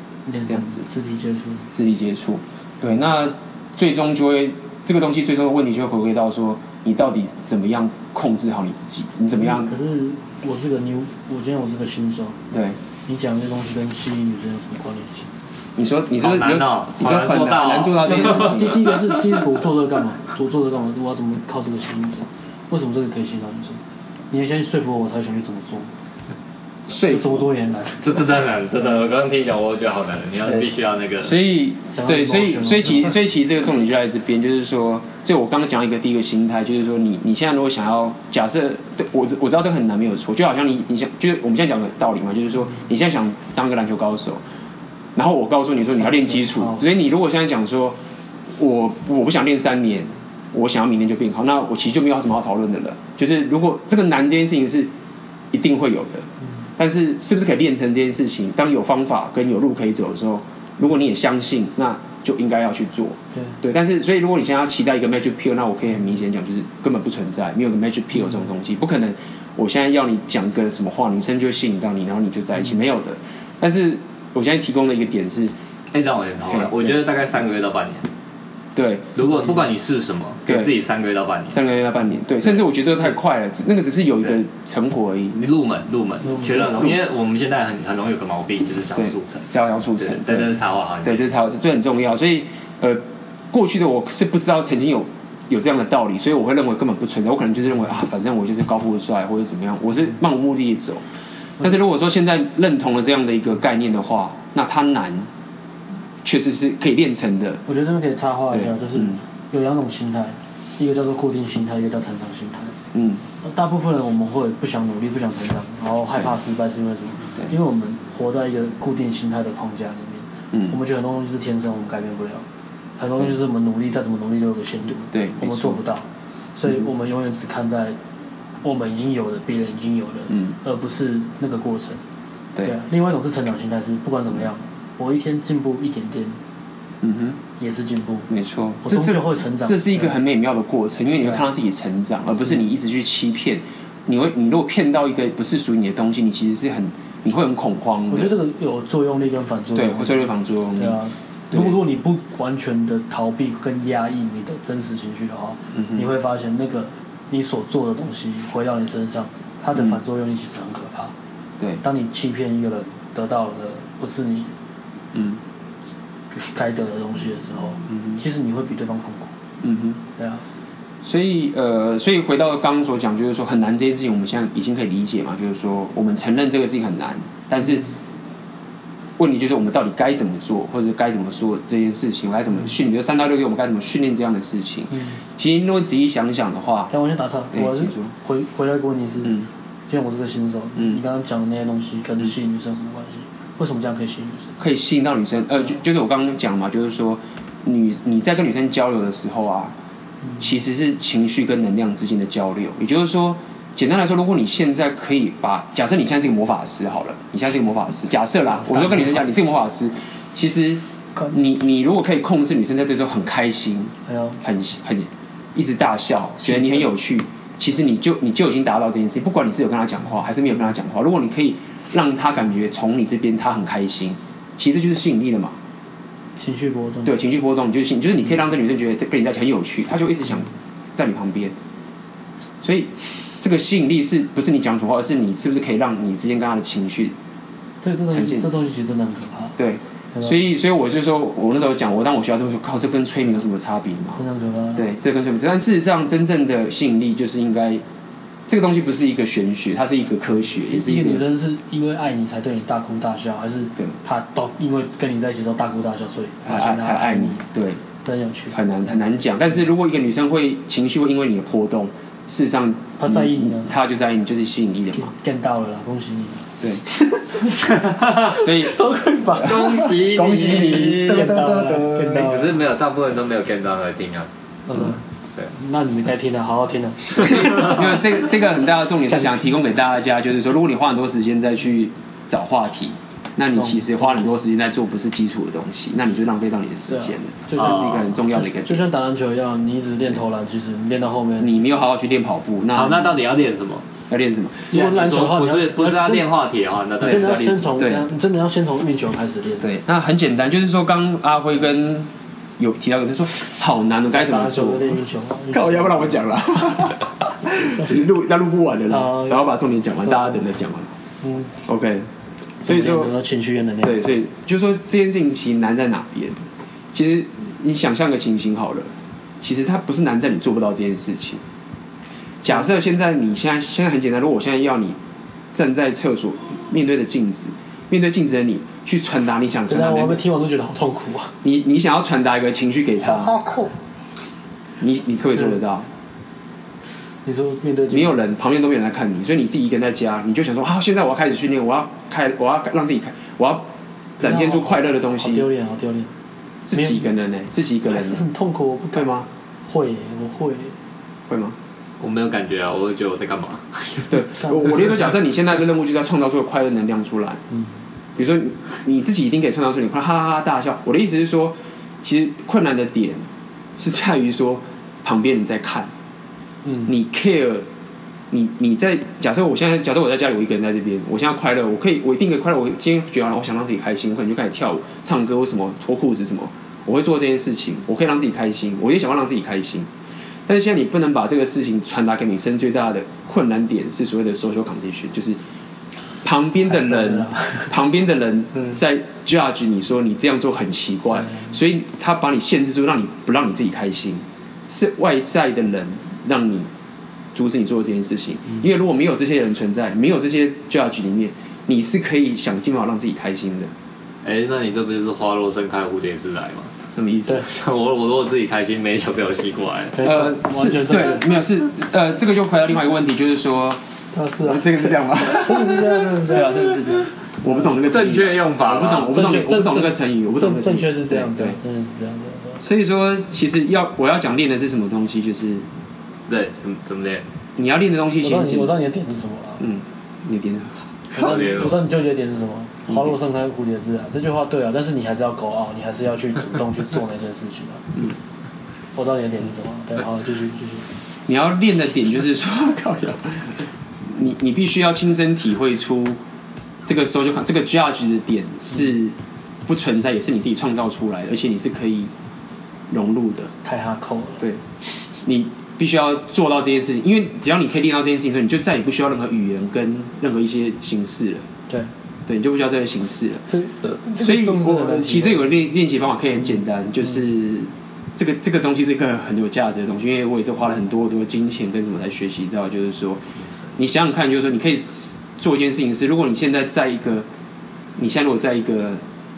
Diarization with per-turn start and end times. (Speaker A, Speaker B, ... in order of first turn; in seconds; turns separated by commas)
Speaker A: 0.3-1.7, Speaker B: 0.5-0.8, Speaker B: 1.7-9.7, Speaker A: 9.3-12.4, Speaker B: 12.5-12.8, Speaker A: 13.1-15.3, Speaker B: 15.8-18.9, Speaker C: 16.2-19.2, Speaker A: 18.1-23.8, Speaker A: 24.3-25.9, Speaker B: 26.9-27.4, Speaker A: 27.0-28.1, Speaker C: 28.0-31.4, Speaker B: 31.2-44.4, Speaker A: 31.9-33.2, Speaker B: 45.2-48.0, Speaker A: 46.1-46.8, Speaker B: 48.6-54.9, Speaker B: 55.5-56.3, Speaker B: 56.8-75.5, Speaker C: 75.9-78.1, Speaker B: 76.5-76.9, Speaker B: 78.8-79.2, Speaker C: 79.2-81.6, Speaker B: 81.5-85.4, Speaker C: 85.4-89.5, Speaker A: 86.3-86.7, Speaker B: 86.4-87.0, Speaker B: 89.0-101.0, Speaker C: 90.0-91.3, Speaker B: 101.6-105.3, Speaker B: 106.2-107.6, Speaker A: 107.7-112.8, Speaker B: 108.5-109.2, Speaker B: 112.9-113.2, Speaker A: 113.4-122.4, Speaker A: 123.0-128.0, Speaker B: 125.1-125.8, Speaker A: 128.6-132.0, Speaker A: 132.6-136.4, Speaker B: 137.0-137.4, Speaker A: 137.6-138.3, Speaker B: 138.3-148.3, Speaker A: 138.8-140.2, Speaker A: 148.1-161.1, Speaker B: 149.8-151.0, Speaker B: 151.5-151.8, Speaker B: 155.8-156.1, Speaker A: 161.8-164.5, Speaker B: 165.1-165.4, Speaker A: 166.3-169.3, Speaker B: 167.9-168.2, Speaker B: 169.6-170.0, Speaker A: 170.2-170.4, Speaker B: 171.0-177.9, Speaker B: 179.2-186.9, Speaker A: 186.9-194.5, Speaker B: 187.5-188.1, Speaker B: 194.6-199.7, Speaker B: 200.4-225.6, Speaker A: 208.7-209.2, Speaker A: 214.1-214.4, Speaker A: 216.4-216.9, Speaker A: 226.4-227.2, Speaker B: 227.1-231.5, Speaker B: 232.6-237.1, Speaker A: 237.8-239.6, Speaker B: 238.1-238.5, Speaker B: 239.6-244.2, Speaker A: 244.2-244.9, Speaker B: 244.8-247.8, Speaker B: 248.5-251.2, Speaker A: 250.7-257.4, Speaker B: 256.4-257.8, Speaker A: 258.0-258.6, Speaker B: 258.5-265.1, Speaker A: 263.0-263.8, Speaker A: 265.0-266.4, Speaker C: 267.7-268.3, Speaker B: 268.0-272.3, Speaker A: 268.4-269.9, Speaker C: 269.4-271.3, Speaker A: 270.4-272.6, Speaker C: 272.1-274.3, Speaker A: 274.7-278.0, Speaker B: 277.2-288.9, Speaker A: 279.1-279.5, Speaker A: 283.6-284.3, Speaker A: 286.9-291.6, Speaker C: 287.6-288.0, Speaker B: 291.4-293.1, Speaker C: 292.7-293.9, Speaker B: 294.1-294.7, Speaker A: 294.7-296.3, Speaker C: 294.7-297.7, Speaker B: 297.0-298.1, Speaker A: 297.0-299.7, Speaker B: 299.6-304.9, Speaker A: 304.1-306.2, Speaker B: 305.5-310.9, Speaker A: 308.9-309.5, Speaker A: 310.1-310.4, Speaker A: 311.2-311.5, Speaker B: 311.6-312.1, Speaker B: 312.6-313.1, Speaker A: 312.6-314.1, Speaker B: 313.8-316.4, Speaker B: 316.9-318.9, Speaker B: 319.4-321.4, Speaker B: 322.4-325.0, Speaker B: 325.5-330.2, Speaker A: 329.7-331.4, Speaker B: 331.4-333.4, Speaker A: 333.0-333.7, Speaker B: 334.8-335.9, Speaker A: 337.2-338.2, Speaker B: 337.9-343.7, Speaker B: 344.2-345.5, Speaker A: 344.2-346.1, Speaker B: 346.7-348.2, Speaker A: 346.7-347.1, Speaker A: 347.9-349.1, Speaker B: 348.9-349.3, Speaker A: 349.7-350.8, Speaker B: 351.3-351.6, Speaker C: 352.0-354.1, Speaker B: 354.1-357.4, Speaker A: 354.4-354.9, Speaker B: 358.2-363.2, Speaker B: 363.8-365.9, Speaker A: 366.6-366.9, Speaker B: 366.9-367.6, Speaker B: 368.3-379.9, Speaker B: 380.5-385.4, Speaker B: 386.2-396.7, Speaker A: 386.7-387.7, Speaker B: 397.4-403.7, Speaker C: 404.2-406.8, Speaker B: 406.9-407.4, Speaker C: 407.5-410.1, Speaker A: 409.9-411.3, Speaker B: 410.0-413.8, Speaker A: 414.1-417.6, Speaker B: 414.4-421.6, Speaker C: 417.9-419.2, Speaker A: 419.1-422.6, Speaker B: 422.6-425.7, Speaker C: 426.3-427.2, Speaker B: 427.6-428.7, Speaker A: 428.2-429.7, Speaker B: 429.6-430.8, Speaker A: 431.1-437.9, Speaker C: 431.1-431.9, Speaker B: 432.9-433.1, Speaker A: 438.9-440.9, Speaker B: 441.3-446.2, Speaker B: 446.9-449.2, Speaker B: 449.7-452.1, Speaker B: 452.9-453.5, Speaker A: 453.6-454.4, Speaker B: 455.2-461.4, Speaker B: 462.3-463.5, Speaker A: 463.5-465.5, Speaker B: 464.2-473.2, Speaker B: 473.8-477.3, Speaker B: 478.0-479.0